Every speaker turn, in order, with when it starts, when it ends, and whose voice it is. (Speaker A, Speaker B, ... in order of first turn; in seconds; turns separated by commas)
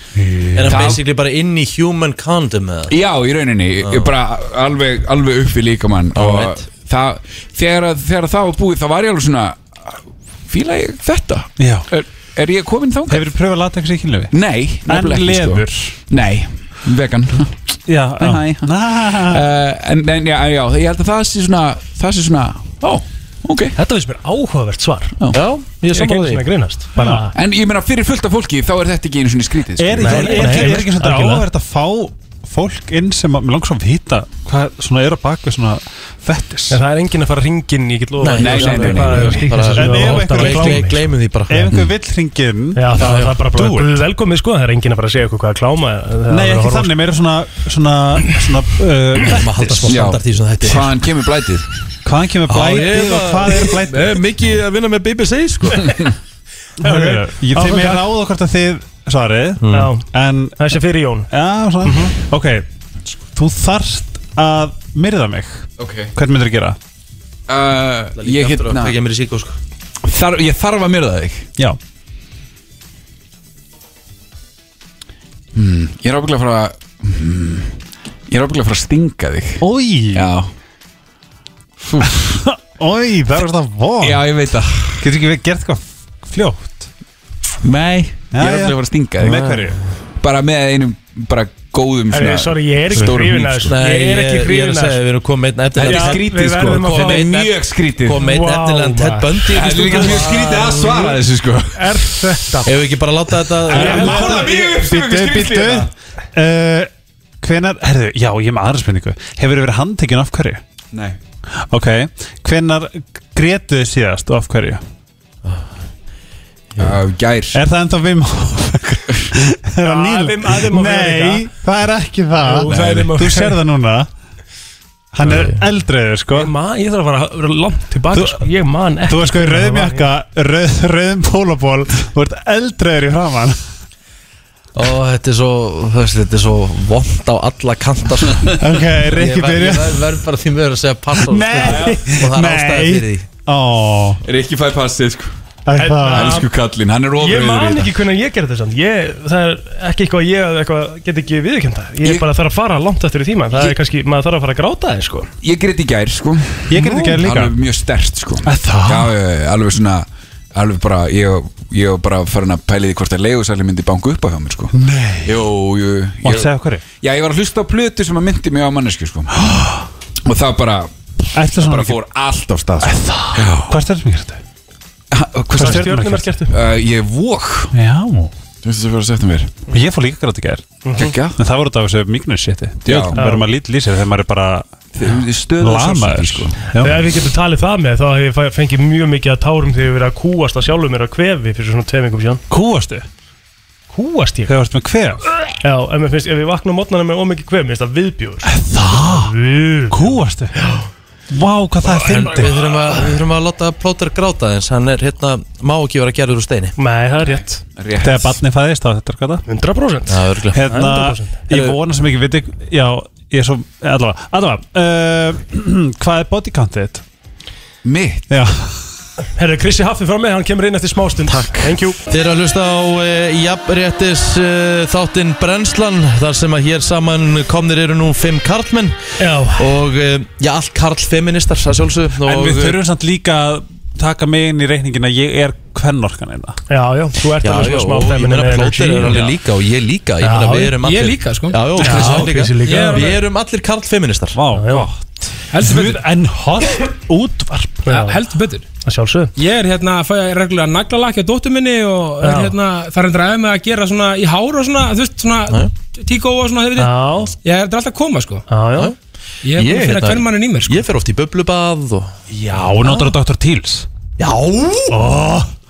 Speaker A: 0.2-1.0, Speaker B: 0.6-3.0, Speaker C: 0.7-1.0, Speaker C: 2.9-13.3, Speaker B: 6.2-6.7, Speaker A: 11.6-11.9, Speaker A: 13.1-14.3, Speaker C: 14.3-17.6, Speaker A: 14.9-16.0, Speaker A: 17.9-19.4, Speaker C: 18.2-23.8, Speaker D: 23.8-25.2, Speaker B: 25.3-26.5, Speaker D: 25.9-27.3, Speaker A: 27.0-27.3, Speaker C: 27.3-30.8, Speaker A: 29.8-36.8, Speaker D: 30.0-31.4, Speaker D: 36.7-41.0, Speaker B: 38.2-41.7, Speaker C: 38.4-39.5, Speaker A: 39.8-44.0, Speaker D: 42.8-46.9, Speaker B: 43.0-43.3, Speaker A: 46.3-50.0, Speaker B: 49.2-50.9, Speaker C: 49.9-51.7, Speaker A: 52.0-54.2, Speaker B: 52.5-55.9, Speaker A: 56.8-60.8, Speaker D: 56.8-58.1, Speaker B: 59.6-59.9, Speaker D: 59.7-61.3, Speaker A: 61.3-62.7, Speaker D: 61.8-62.1, Speaker A: 63.4-66.8, Speaker C: 65.8-66.1, Speaker C: 67.5-69.0, Speaker B: 68.2-69.6, Speaker C: 70.0-71.5, Speaker C: 75.5-80.5, Speaker A: 79.6-80.3, Speaker C: 81.8-82.1, Speaker A: 82.0-84.3, Speaker C: 84.0-85.1, Speaker A: 85.0-86.9, Speaker C: 87.6-89.6, Speaker A: 88.3-89.8, Speaker B: 89.3-89.5, Speaker C: 90.2-93.8, Speaker D: 92.1-95.0, Speaker B: 93.7-100.7, Speaker C: 95.8-98.3, Speaker D: 95.8-97.3, Speaker D: 98.2-101.1, Speaker C: 99.5-102.3, Speaker D: 101.8-102.7, Speaker B: 102.6-104.3, Speaker C: 103.7-105.9, Speaker D: 103.7-104.5, Speaker A: 103.7-110.6, Speaker C: 110.9-111.2, Speaker A: 111.7-114.8, Speaker C: 116.8-117.6, Speaker A: 117.5-124.1, Speaker D: 119.8-121.5, Speaker D: 122.4-123.6, Speaker C: 122.7-123.1, Speaker A: 125.1-126.5, Speaker B: 125.2-125.6, Speaker D: 126.3-130.1, Speaker A: 128.1-128.5, Speaker A: 129.1-133.6, Speaker B: 134.8-143.2, Speaker A: 138.6-140.1, Speaker A: 141.2-144.2, Speaker C: 141.6-142.1, Speaker C: 144.2-145.3, Speaker A: 145.7-146.4, Speaker D: 145.8-146.5, Speaker C: 146.1-147.9, Speaker D: 147.2-155.3, Speaker C: 155.4-169.3, Speaker A: 156.7-157.6, Speaker D: 156.8-157.2, Speaker A: 158.4-159.1, Speaker A: 164.7-165.4, Speaker A: 166.2-166.8, Speaker A: 169.3-169.8, Speaker C: 170.2-173.8, Speaker A: 171.3-172.0, Speaker A: 172.8-174.4, Speaker C: 175.1-176.0, Speaker A: 175.6-176.4, Speaker D: 175.6-176.5, Speaker C: 176.5-177.7, Speaker A: 177.7-178.3, Speaker C: 178.6-179.6, Speaker A: 179.7-180.8, Speaker D: 180.8-181.2, Speaker C: 181.0-181.4, Speaker A: 181.4-184.7, Speaker C: 182.8-183.2, Speaker D: 183.1-183.5, Speaker C: 184.9-186.6, Speaker A: 185.6-187.1, Speaker D: 186.8-192.4, Speaker A: 192.5-193.1, Speaker D: 193.9-194.5, Speaker A: 194.5-195.4, Speaker D: 195.6-200.8, Speaker A: 198.4-199.3, Speaker A: 199.9-200.7, Speaker A: 201.3-202.6, Speaker B: 201.8-206.8, Speaker D: 206.8-207.6, Speaker C: 207.3-208.4, Speaker A: 208.0-209.4, Speaker D: 209.5-211.4, Speaker B: 210.1-210.6, Speaker A: 210.5-217.0, Speaker C: 217.8-218.3, Speaker A: 218.3-218.8, Speaker D: 219.4-222.0, Speaker B: 221.3-232.8, Speaker D: 229.2-229.7, Speaker A: 232.2-236.6, Speaker D: 236.7-239.3, Speaker B: 237.4-244.4, Speaker D: 240.2-240.8, Speaker E: 240.8-242.9, Speaker D: 241.8-243.2, Speaker A: 242.7-243.1, Speaker A: 244.3-247.9, Speaker D: 244.5-244.9, Speaker E: 245.5-246.1, Speaker D: 247.8-248.2, Speaker E: 247.9-248.7, Speaker D: 248.8-249.3, Speaker E: 249.4-258.5, Speaker D: 252.2-252.6, Speaker D: 256.8-257.3, Speaker D: 258.5-258.9, Speaker E: 259.4-260.9, Speaker B: 259.6-262.1, Speaker A: 262.3-263.9, Speaker B: 264.2-265.0, Speaker A: 264.9-265.5